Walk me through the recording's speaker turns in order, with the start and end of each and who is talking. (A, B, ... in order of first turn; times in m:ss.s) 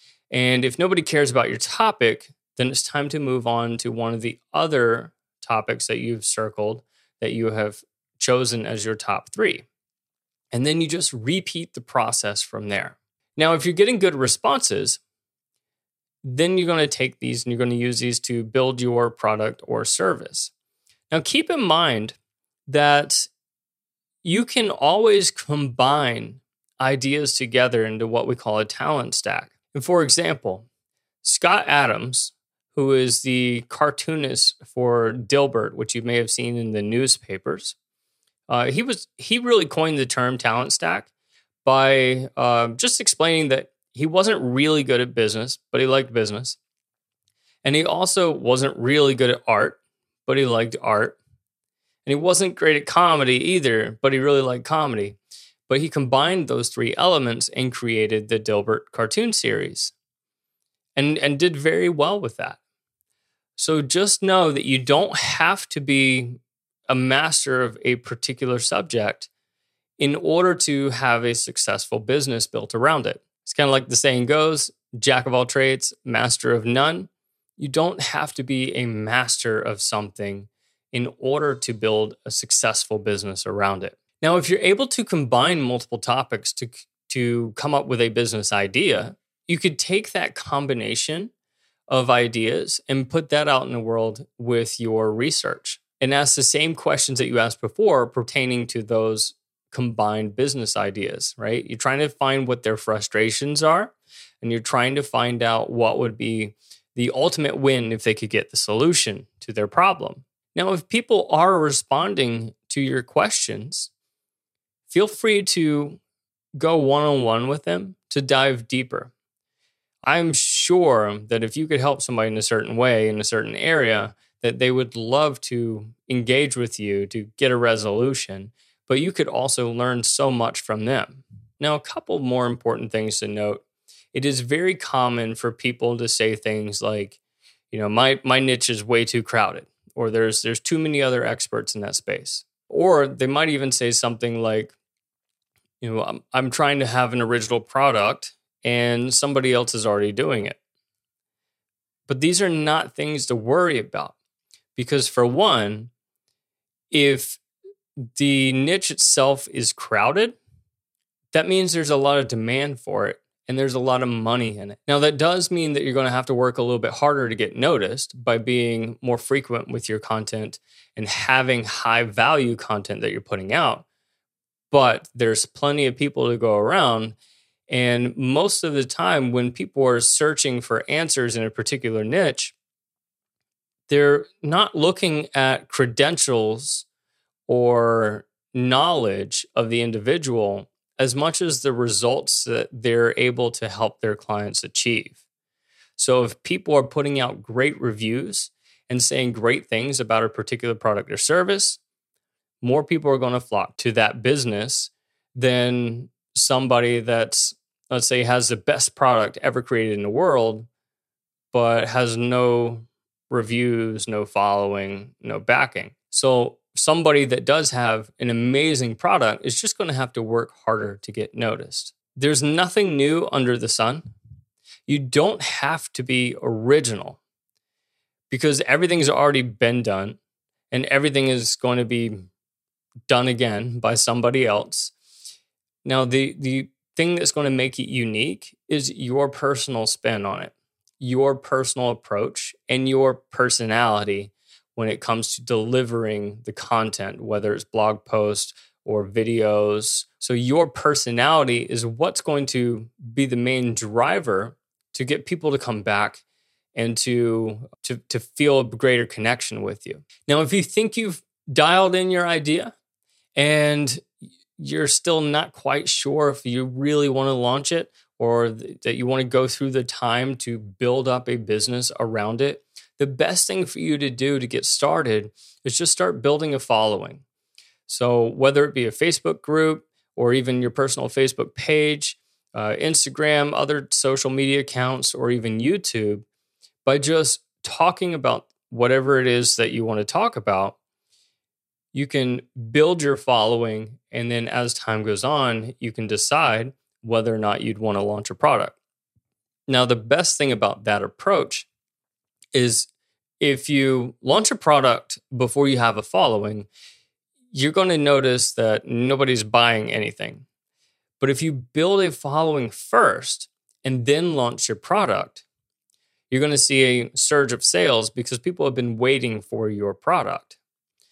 0:00.3-0:09.7 A
0:10.5-0:15.0 A
0:16.2-0:20.5 A
0:21.1-0:23.3 A
0:24.2-0:30.7 A
0:31.2-0:37.8 A
0:38.5-0:41.1 A
0:41.6-0:46.6 A
0:47.6-0:51.2 A
0:52.1-0:59.9 A
1:01.0-1:02.6 A
1:03.6-1:09.3 A
1:10.0-1:31.3 A
1:31.9-1:53.9 A
1:54.9-1:56.0 A
1:56.6-1:59.1 A
2:00.0-2:17.2 A
2:17.7-2:24.8 A
2:25.8-2:30.6 A
2:32.1-2:34.2 A
2:34.8-2:35.9 A
2:36.9-2:37.4 A
2:38.0-2:40.4 A
2:41.3-2:53.9 A
2:54.7-2:57.2 A
2:57.7-3:02.6 A
3:03.9-3:06.9 A
3:07.5-3:15.2 A
3:16.0-3:21.8 A
3:22.6-3:30.7 A
3:31.5-3:44.1 A
3:44.9-3:47.2 A
3:48.3-3:50.2 A
3:50.7-3:52.3 A
3:53.1-3:54.9 A
3:55.8-4:16.2 A
4:16.8-4:22.8 A
4:23.4-4:37.2 A
4:37.9-4:46.3 A
4:46.8-4:50.8 A
4:51.9-4:58.8 A
4:59.7-5:01.7 A
5:02.6-5:02.9 A
5:03.4-5:06.7 A
5:07.5-5:10.4 A
5:11.2-5:15.4 A
5:16.3-5:20.6 A